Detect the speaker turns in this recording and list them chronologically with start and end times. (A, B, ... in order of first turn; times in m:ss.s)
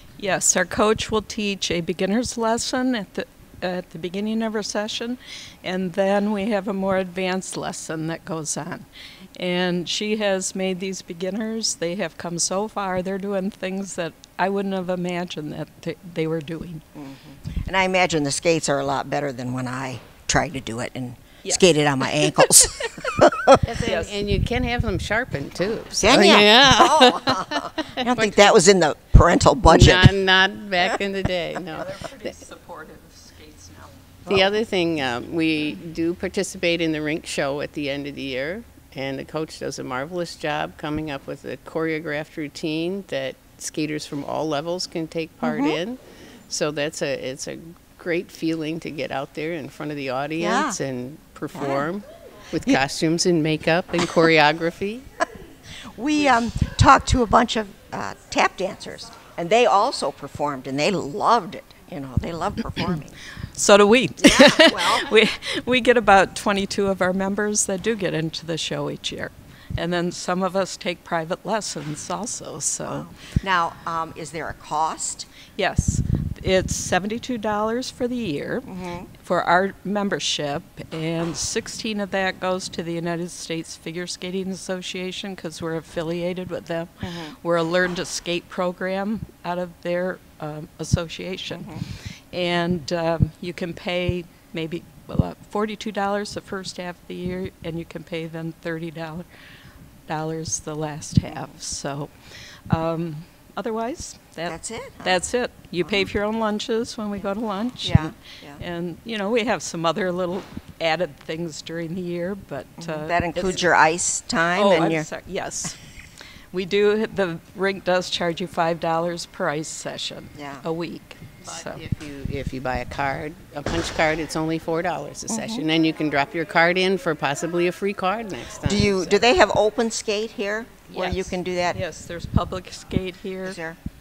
0:00.2-0:16.8 A
0:17.0-0:23.6 B
0:21.4-0:23.1 A
0:23.6-0:28.6 C
0:23.8-0:24.1 A
0:26.0-0:30.2 B
0:29.6-0:32.0 C
0:31.8-0:34.4 A
0:34.3-0:55.0 C
0:45.4-0:45.8 B
0:50.4-0:50.8 B
0:51.6-0:51.8 B
0:55.8-1:03.2 B
1:03.5-1:13.1 A
1:04.2-1:05.1 B
1:12.9-1:15.3 B
1:15.6-1:31.7 A
1:18.7-1:19.1 B
1:27.0-1:27.4 B
1:31.5-1:31.8 B
1:32.3-1:39.3 A
1:40.1-1:42.1 A
1:41.3-1:41.5 B
1:42.7-1:53.6 A
1:44.5-1:45.2 B
1:45.8-1:46.1 B
1:47.8-1:48.6 B
1:52.8-1:55.1 B
1:54.6-1:55.8 A
1:56.5-2:01.8 A
2:00.4-2:00.6 B
2:01.4-2:09.3 C
2:05.3-2:05.7 B
2:08.6-2:11.8 B
2:10.9-2:13.6 A
2:13.4-2:13.8 B